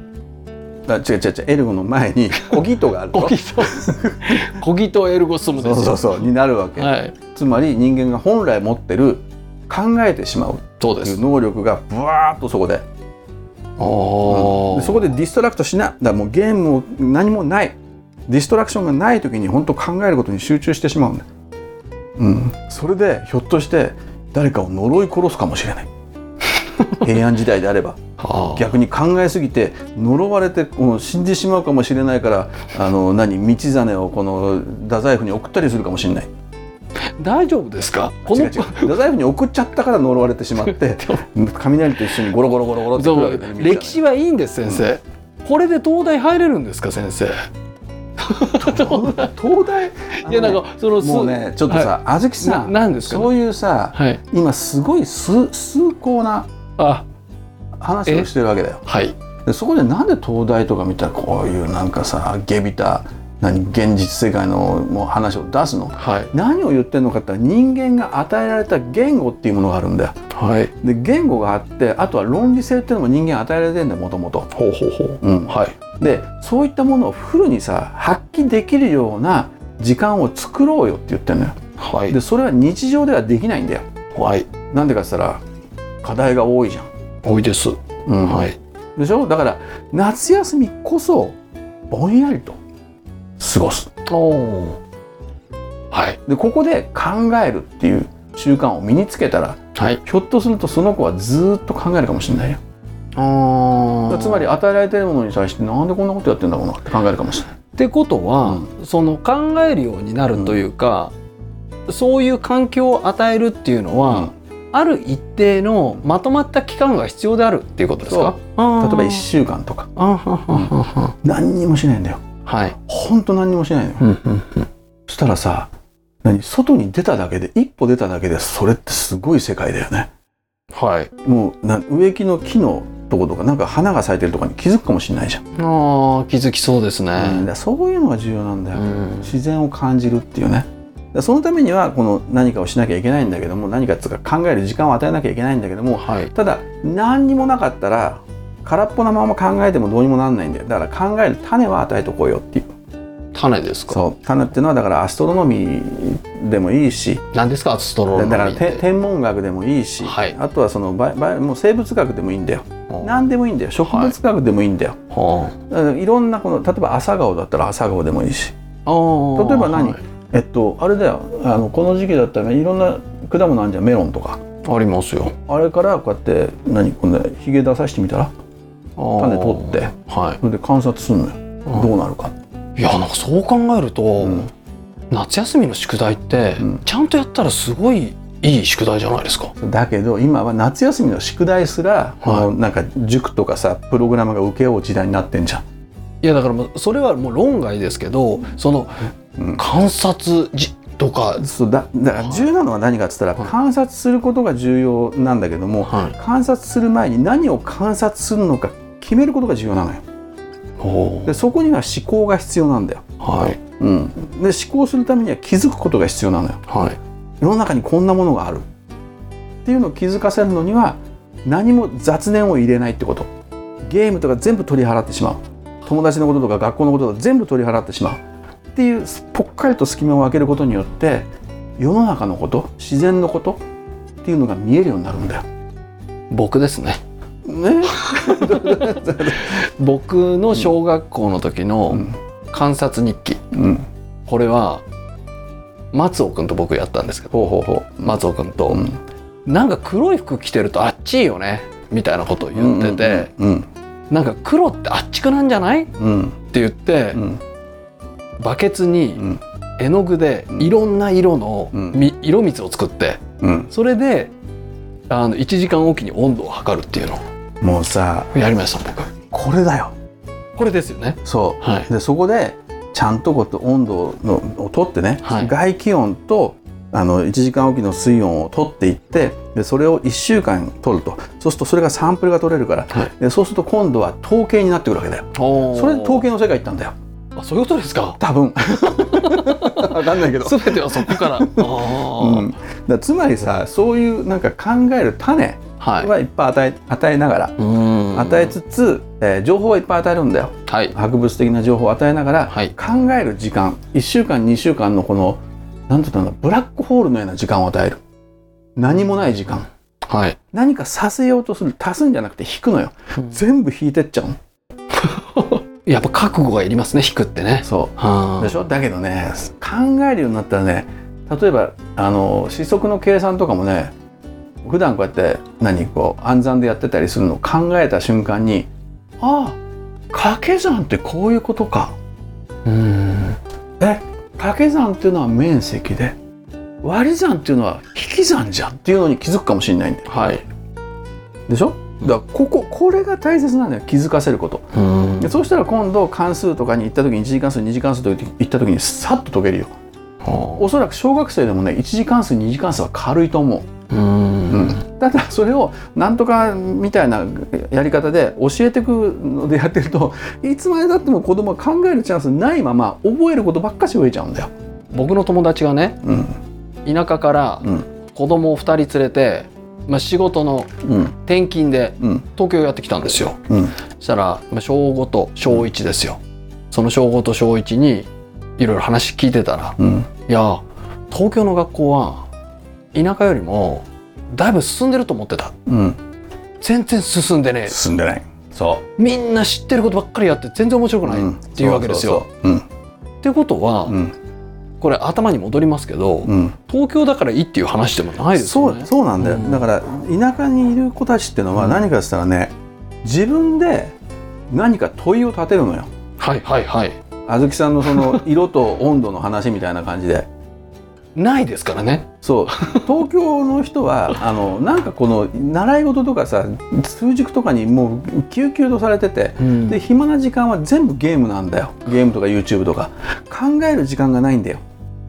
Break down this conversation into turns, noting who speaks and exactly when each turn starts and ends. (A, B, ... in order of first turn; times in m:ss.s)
0:00.9-0:04.5 A
0:03.1-0:07.2 B
0:05.5-0:12.8 A
0:10.8-0:11.2 B
0:13.8-0:15.1 B
0:14.2-0:21.3 A
0:22.2-0:25.9 A
0:27.0-0:28.0 A
0:28.2-0:28.7 B
0:28.6-0:36.3 A
0:37.2-0:39.0 B
0:38.2-0:44.0 A
0:40.6-0:41.2 B
0:43.0-0:47.4 B
0:48.2-0:49.3 B
0:48.6-0:56.5 A
0:50.2-0:53.3 B
0:53.9-0:54.2 B
0:56.8-0:57.0 B
0:57.8-0:58.8 A
0:58.9-0:59.2 B
0:59.5-1:10.1 A
1:06.0-1:06.3 B
1:10.3-1:10.7 B
1:10.8-1:14.5 A
1:14.5-1:15.8 B
1:15.2-1:21.6 A
1:21.8-1:22.2 B
1:22.1-1:23.8 A
1:24.2-1:24.5 B
1:24.7-1:25.4 A
1:26.0-1:26.9 A
1:27.2-1:28.6 B
1:28.1-1:31.4 A
1:31.9-1:32.6 A
1:33.4-1:33.9 A
1:34.1-1:34.8 B
1:35.9-1:36.2 B
1:36.3-1:42.6 A
1:39.8-1:40.0 B
1:43.2-1:44.5 B
1:44.1-1:47.5 A
1:47.8-1:51.1 B
1:51.9-1:59.3 B
1:58.0-1:59.9 A
2:00.0-2:01.1 B
2:00.5-2:02.2 A
2:02.5-2:02.8 B
2:02.8-2:04.1 A
2:04.0-2:04.7 B
2:05.1-2:05.7 A
2:06.2-2:10.1 A
2:10.7-2:11.1 B
2:11.2-2:15.4 A
2:15.6-2:17.5 B
2:17.2-2:32.7 A
2:18.7-2:19.3 B
2:26.0-2:26.3 B
2:33.3-2:34.0 B
2:33.9-2:37.2 A
2:37.3-2:38.9 B
2:38.1-2:45.0 A
2:40.0-2:40.4 B
2:43.8-2:44.2 B
2:45.1-2:45.6 B
2:45.7-2:48.6 A
2:48.9-2:50.0 B
2:49.4-2:54.4 A
2:54.6-2:55.4 B
2:55.5-2:58.3 A
2:59.0-3:00.4 B
2:59.2-3:02.4 A
3:02.8-3:04.5 B
3:04.2-3:04.5 A
3:05.1-3:09.5 B
3:09.6-3:15.6 A
3:12.2-3:12.5 B
3:16.2-3:21.5 B
3:19.4-3:19.6 A
3:21.4-3:30.0 A
3:25.8-3:26.2 B
3:30.8-3:31.4 B
3:31.3-3:33.0 A
3:33.2-3:33.6 B
3:33.8-3:36.6 A
3:36.7-3:37.0 B
3:37.4-3:38.7 A
3:39.6-3:43.3 A
3:43.9-3:48.2 A
3:48.7-3:53.6 A
3:54.2-3:55.4 A
3:56.3-3:57.0 B
3:57.4-3:59.6 A
3:57.9-3:58.5 B
3:59.4-4:03.4 B
4:03.5-4:03.9 A
4:04.3-4:04.8 B
4:05.9-4:08.9 B
4:07.3-4:08.2 A
4:08.7-4:09.0 A
4:09.5-4:13.3 B
4:12.5-4:13.7 A
4:14.1-4:15.9 B
4:16.0-4:16.4 A
4:16.5-4:17.2 B
4:17.1-4:17.4 A
4:18.4-4:19.3 B
4:19.8-4:24.3 B
4:21.7-4:22.0 A
4:23.4-4:23.7 A
4:25.1-4:27.2 B
4:27.6-4:28.3 A
4:28.3-4:29.1 B
4:29.3-4:29.9 A
4:30.6-4:31.9 B
4:31.2-4:47.0 A
4:35.2-4:35.5 B
4:45.4-4:46.3 B
4:47.4-4:48.2 B
4:48.2-4:57.6 A
4:49.1-4:52.5 B
4:55.8-4:56.1 B
4:57.6-4:58.6 B
4:58.1-5:08.0 A
5:00.7-5:01.0 B
5:08.8-5:09.7 A
5:10.0-5:10.4 B
5:10.5-5:14.4 A
5:15.0-5:18.6 B
5:17.6-5:23.9 A
5:24.6-5:28.7 A
5:29.2-5:29.6 A
5:30.1-5:32.0 A
5:32.7-5:33.4 B
5:33.8-5:36.2 A
5:36.8-5:40.4 A
5:40.1-5:40.4 B
5:41.5-5:49.7 A
5:44.7-5:45.3 B
5:50.2-5:50.6 B
5:50.6-5:53.7 A
5:53.9-5:54.8 B
5:54.5-6:04.5 A
6:04.9-6:06.0 B
6:06.0-6:06.4 A
6:06.9-6:13.4 B
6:10.8-6:11.1 A
6:13.5-6:13.7 A
6:14.0-6:16.2 B
6:16.7-6:22.3 B
6:19.8-6:20.1 A
6:22.9-6:25.6 B
6:25.7-6:26.0 A
6:26.6-6:27.8 B
6:27.7-6:28.8 A
6:29.0-6:32.3 B
6:31.0-6:32.7 A
6:33.2-6:34.0 B
6:33.9-6:34.2 A
6:34.8-6:39.6 B
6:36.2-6:36.6 A
6:38.4-6:44.0 A
6:41.6-6:41.8 B
6:44.5-6:45.9 A
6:46.2-6:47.0 B
6:47.3-6:50.3 A
6:47.9-6:48.2 B
6:51.2-6:52.9 B
6:52.2-7:04.6 A
6:59.4-6:59.8 B